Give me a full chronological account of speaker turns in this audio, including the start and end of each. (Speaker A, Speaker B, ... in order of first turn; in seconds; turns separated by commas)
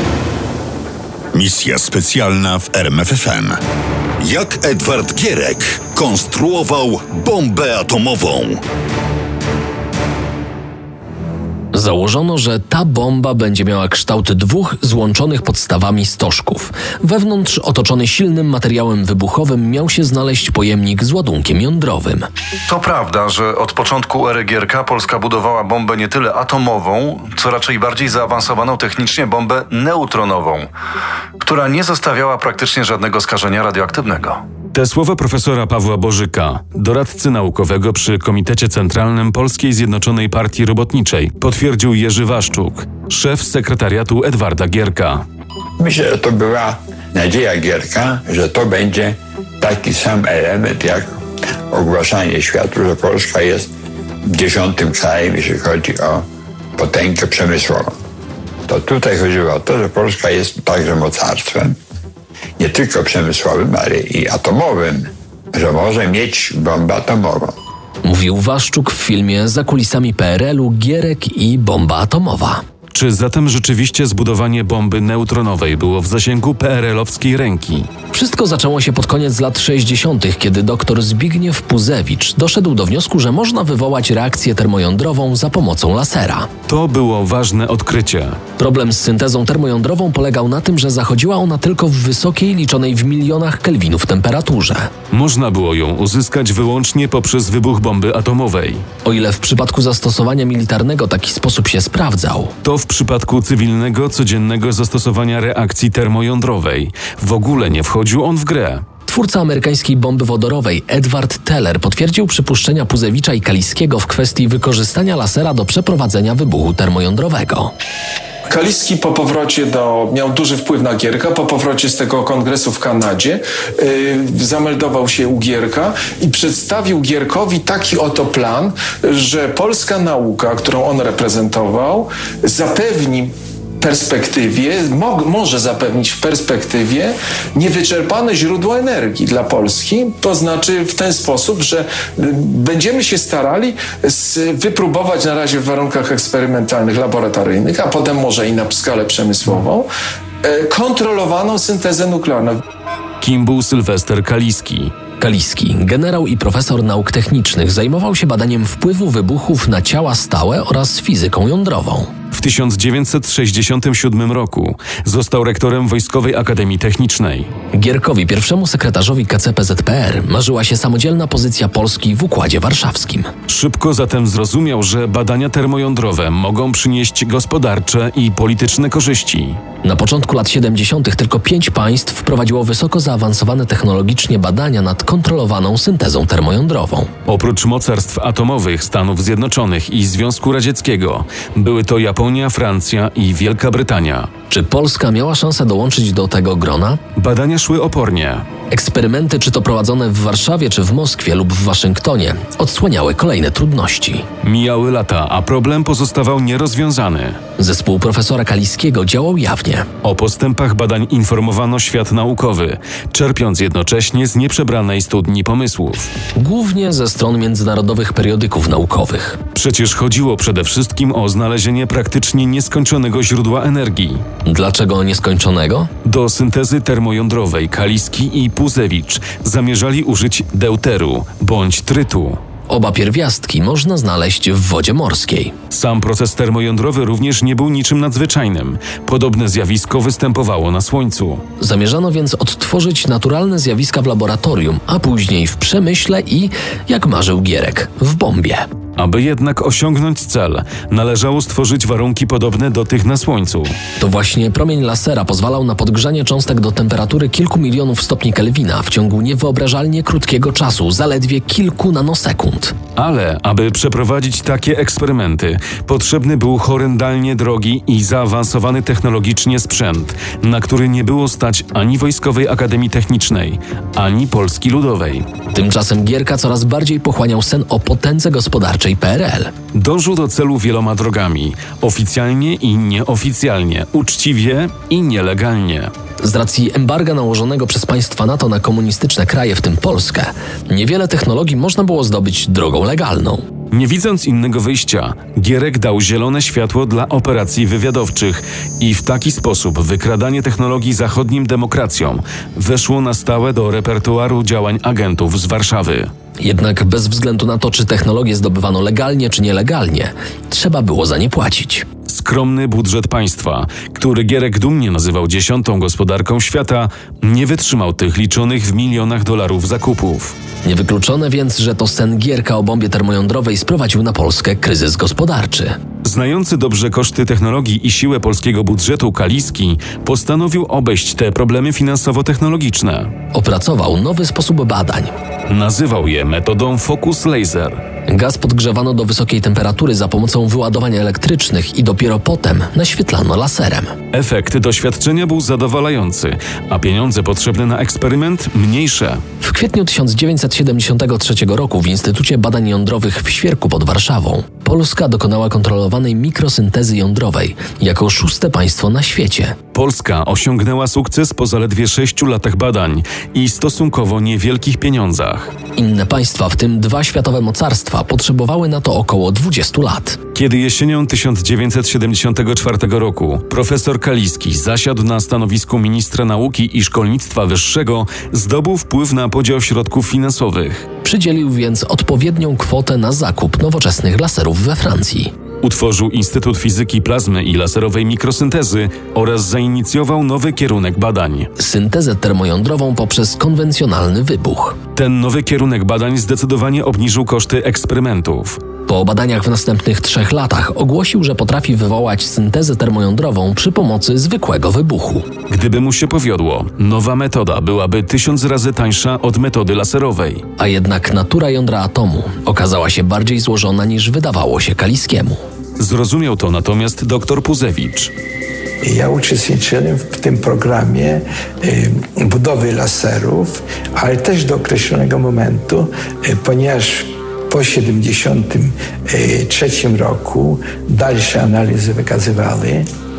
Speaker A: 1.3-3.6, Speaker A: 4.2-8.6, Speaker B: 11.7-22.2, Speaker C: 22.7-30.7, Speaker C: 31.4-34.4, Speaker D: 34.7-45.2, Speaker E: 45.8-51.2, Speaker E: 51.7-53.7, Speaker E: 54.2-56.2, Speaker E: 56.8-57.9, Speaker E: 58.7-61.8, Speaker E: 62.6-67.5, Speaker B: 68.0-72.6, Speaker D: 72.9-77.9, Speaker B: 78.1-86.5, Speaker D: 86.7-88.4, Speaker B: 88.6-94.9, Speaker D: 95.1-98.9, Speaker B: 99.0-102.5, Speaker D: 102.6-108.8, Speaker B: 109.1-117.7, Speaker F: 118.5-149.9, Speaker F: 150.4-152.6, Speaker D: 153.2-154.9, Speaker B: 155.2-162.1, Speaker D: 162.3-167.5, Speaker B: 167.7-173.3, Speaker D: 173.5-179.6, Speaker B: 179.8-187.1, Speaker D: 187.3-194.3, Speaker B: 194.5-197.0, Speaker D: 197.2-198.4, Speaker B: 198.7-204.2, Speaker D: 204.4-207.4, Speaker B: 207.6-209.9, Speaker D: 210.0-216.1, Speaker B: 216.4-219.4, Speaker D: 219.5-224.2, Speaker B: 224.5-225.9, Speaker D: 226.0-232.4, Speaker B: 232.7-235.5, Speaker D: 235.7-241.4, Speaker B: 241.6-248.7, Speaker D: 249.0-253.8, Speaker B: 254.0-262.8, Speaker D: 263.0-275.3, Speaker B: 275.5-279.5, Speaker D: 279.7-285.9, Speaker B: 286.2-293.4, Speaker D: 293.7-306.1, Speaker B: 306.4-311.9, Speaker D: 312.1-320.4, Speaker B: 320.6-325.8, Speaker D: 326.0-333.1, Speaker B: 333.3-335.1, Speaker D: 335.5-337.8, Speaker B: 338.1-343.9, Speaker D: 344.1-349.2, Speaker B: 349.4-359.6, Speaker D: 359.7-365.5, Speaker B: 365.8-370.2, Speaker D: 370.3-380.9, Speaker B: 381.0-385.3, Speaker D: 385.6-391.5, Speaker B: 391.6-394.8, Speaker D: 394.9-398.6, Speaker B: 398.9-405.2, Speaker D: 405.5-410.4, Speaker B: 410.6-415.4, Speaker D: 415.8-418.1, Speaker G: 418.8-432.9